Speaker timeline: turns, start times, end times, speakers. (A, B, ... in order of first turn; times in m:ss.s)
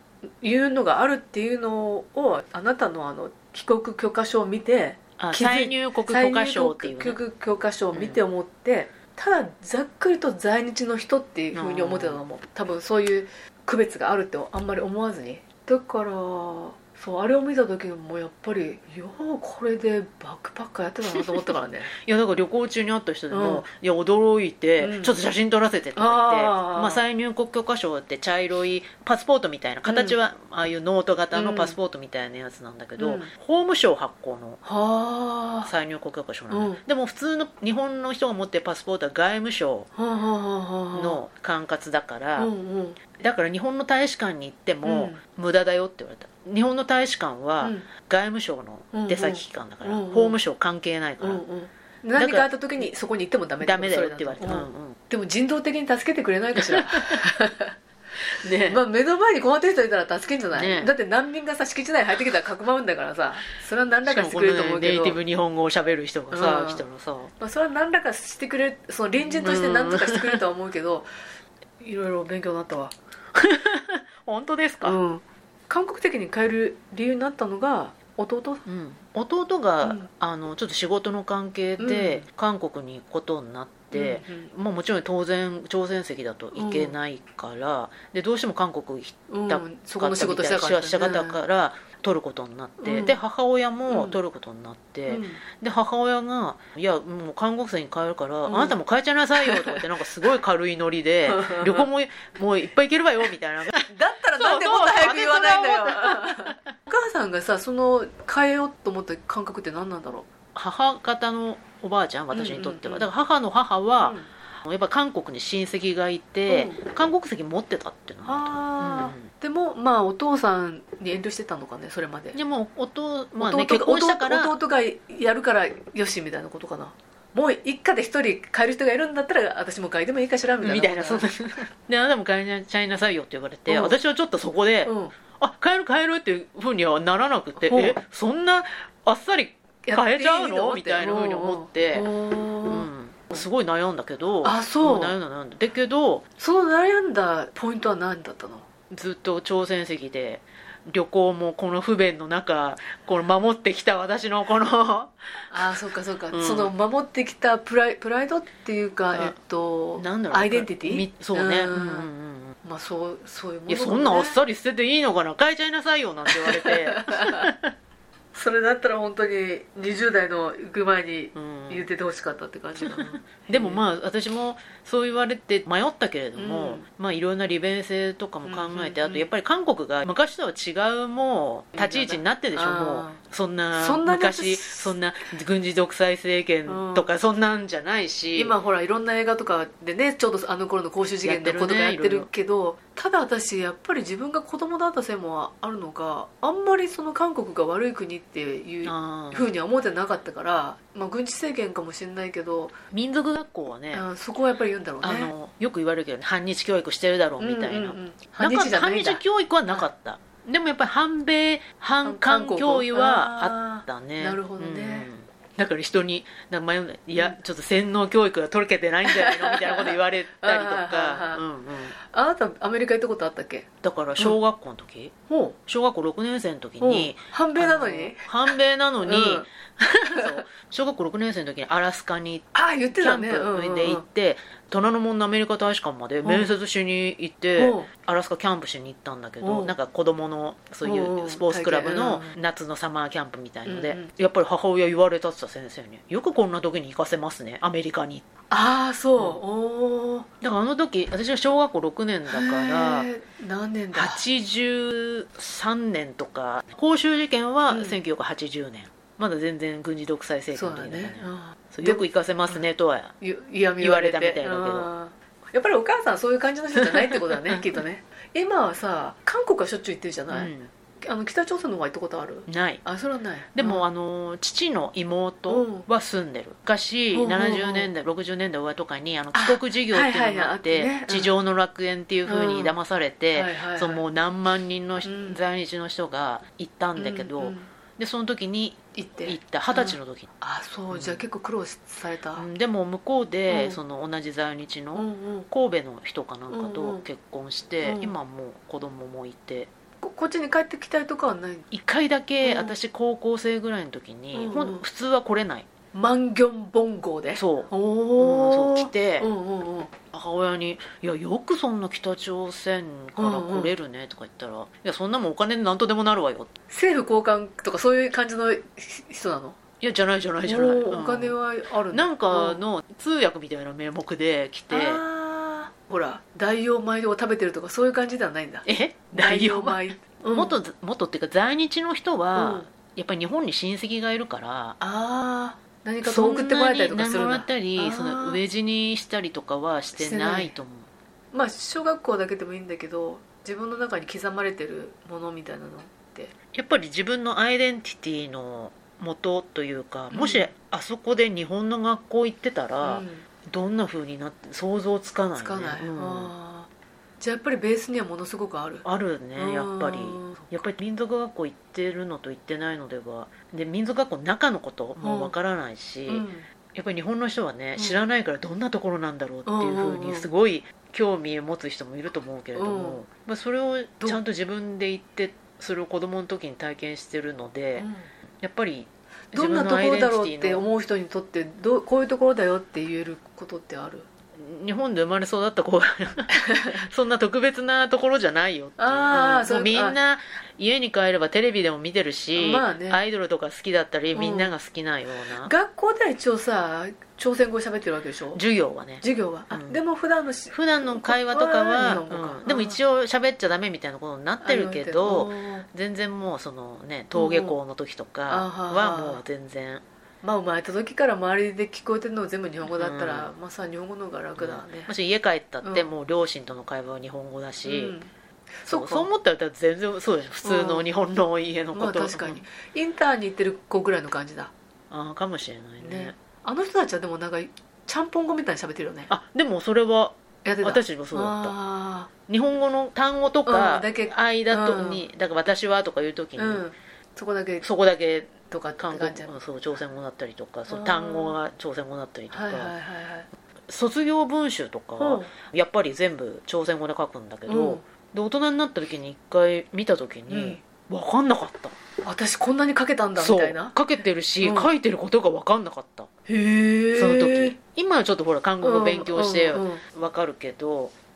0:00.4-0:21.9 A
0:05.2-0:07.2 B
0:07.9-0:08.2 B
0:11.5-0:12.2 B
0:21.9-0:34.6 B
0:23.3-0:23.6 A
0:24.8-0:25.1 A
0:26.0-0:27.0 A
0:29.9-0:30.2 A
0:31.4-0:31.8 A
0:33.0-0:33.3 A
0:34.6-0:35.7 A
0:35.6-0:39.9 B
0:36.5-0:36.8 A
0:40.0-0:41.2 A
0:40.9-0:42.5 B
0:42.4-0:43.0 A
0:43.2-0:51.4 B
0:44.8-0:45.2 A
0:47.6-0:47.9 A
0:48.9-0:50.4 A
0:51.2-0:57.8 A
0:52.2-0:52.9 B
0:53.6-0:55.0 B
0:56.6-0:57.2 B
0:58.4-0:58.8 B
0:58.6-1:05.2 A
1:00.5-1:00.9 B
1:04.0-1:07.3 B
1:06.3-1:06.8 A
1:07.4-1:11.1 A
1:09.2-1:10.4 B
1:11.8-1:13.0 A
1:13.3-1:15.0 B
1:14.8-1:18.6 A
1:18.7-1:46.6 B
1:19.8-1:20.1 A
1:21.8-1:22.3 A
1:23.9-1:24.5 A
1:26.6-1:27.0 A
1:29.3-1:31.4 A
1:32.8-1:33.2 A
1:33.9-1:34.2 A
1:35.1-1:35.4 A
1:38.5-1:38.8 A
1:39.4-1:39.8 A
1:41.3-1:41.9 A
1:43.8-1:50.3 A
1:50.6-1:59.3 B
1:52.3-1:53.1 A
1:54.0-1:54.3 A
1:56.5-1:56.8 A
1:58.2-2:02.4 A
2:02.3-2:04.6 B
2:03.4-2:11.3 A
2:10.6-2:22.1 B
2:13.7-2:14.0 A
2:14.8-2:15.1 A
2:17.6-2:18.0 A
2:19.9-2:23.4 A
2:22.7-2:26.2 B
2:24.4-2:25.2 A
2:26.4-2:28.7 A
2:28.9-2:35.8 B
2:35.5-2:42.1 A
2:36.3-2:36.7 B
2:40.0-2:42.6 B
2:42.6-2:44.4 A
2:43.7-2:47.7 B
2:46.3-2:47.5 A
2:48.3-2:53.8 A
2:51.4-2:51.9 B
2:52.8-3:08.6 B
2:56.4-2:56.8 A
2:58.4-2:59.3 A
3:01.8-3:03.2 A
3:03.7-3:05.0 A
3:06.7-3:07.1 A
3:08.4-3:22.8 A
3:11.2-3:12.3 B
3:18.8-3:19.5 B
3:22.9-3:24.0 B
3:23.9-3:25.3 A
3:25.0-3:42.0 B
3:27.4-3:29.9 A
3:32.0-3:35.1 A
3:39.0-3:41.4 A
3:42.0-3:43.7 A
3:43.8-3:45.1 B
3:45.3-3:45.6 A
3:45.7-3:52.5 B
3:46.8-3:48.3 A
3:49.0-3:49.5 A
3:50.1-3:50.4 A
3:52.5-3:54.0 A
3:53.0-4:08.2 B
3:56.2-3:56.5 A
3:57.6-3:57.9 A
3:59.4-3:59.7 A
4:00.8-4:02.4 A
4:03.7-4:04.1 A
4:08.5-4:10.3 A
4:10.4-4:13.1 B
4:12.3-4:14.2 A
4:14.0-4:23.1 B
4:17.7-4:18.0 A
4:20.5-4:22.6 A
4:23.2-4:33.9 A
4:23.8-4:24.9 B
4:26.8-4:27.8 B
4:30.3-4:30.7 B
4:32.5-4:32.8 B
4:33.6-4:50.3 B
4:35.5-4:35.9 A
4:37.1-4:37.9 A
4:39.3-4:41.3 A
4:42.3-4:42.7 A
4:43.3-4:44.0 A
4:45.0-4:45.4 A
4:47.0-4:47.7 A
4:49.0-4:52.5 A
4:50.9-4:51.2 B
4:52.4-4:59.7 B
4:53.5-4:53.8 A
4:55.0-4:55.5 A
4:56.5-4:57.0 A
4:57.8-4:58.2 A
5:00.0-5:01.7 A
5:01.7-5:05.7 B
5:02.4-5:02.8 A
5:04.3-5:04.8 A
5:05.9-5:09.9 A
5:07.4-5:09.3 B
5:10.1-5:16.5 B
5:13.2-5:13.7 A
5:16.7-5:19.6 A
5:19.8-5:21.4 B
5:20.4-5:22.6 A
5:21.9-5:25.0 B
5:24.7-5:30.6 A
5:28.6-5:34.8 B
5:32.4-5:32.7 A
5:34.8-5:38.4 A
5:36.0-5:40.9 B
5:40.0-5:40.5 A
5:41.3-5:46.3 A
5:46.5-5:56.3 B
5:50.1-5:50.5 A
5:52.8-5:53.3 A
5:55.4-5:56.7 A
5:57.2-6:00.6 A
5:58.8-6:17.9 B
6:05.0-6:05.3 A
6:06.1-6:06.5 A
6:09.5-6:10.3 A
6:12.6-6:13.0 A
6:17.8-6:18.1 A
6:18.4-6:20.7 B
6:19.3-6:24.1 A
6:24.4-6:35.5 B
6:26.3-6:26.9 A
6:28.8-6:30.0 A
6:32.4-6:33.0 A
6:34.1-6:34.5 A
6:35.4-6:38.4 A
6:38.3-6:39.8 B
6:39.0-6:42.8 A
6:40.5-6:49.8 B
6:44.4-6:45.7 A
6:47.1-6:47.6 A
6:48.3-6:49.2 A
6:50.2-6:54.9 A
6:52.7-6:53.3 B
6:54.4-6:58.0 B
6:57.6-6:58.1 A
6:58.6-6:59.1 A
6:58.7-7:02.4 B
7:00.4-7:00.8 A
7:01.7-7:04.5 A
7:04.9-7:06.1 B
7:05.8-7:09.1 A
7:09.1-7:11.5 B
7:10.4-7:12.1 A
7:12.3-7:16.6 B
7:13.5-7:15.0 A
7:16.4-7:17.7 A
7:17.6-7:22.7 B
7:18.5-7:19.4 A
7:20.7-7:21.4 A
7:22.3-7:23.3 A
7:23.7-7:31.8 B
7:25.0-7:25.3 A
7:27.5-7:27.8 A
7:30.3-7:30.6 A
7:32.0-7:33.7 A
7:33.2-7:36.1 B
7:34.4-7:34.7 A
7:36.3-7:37.6 A
7:37.0-7:40.9 B
7:38.6-7:39.8 A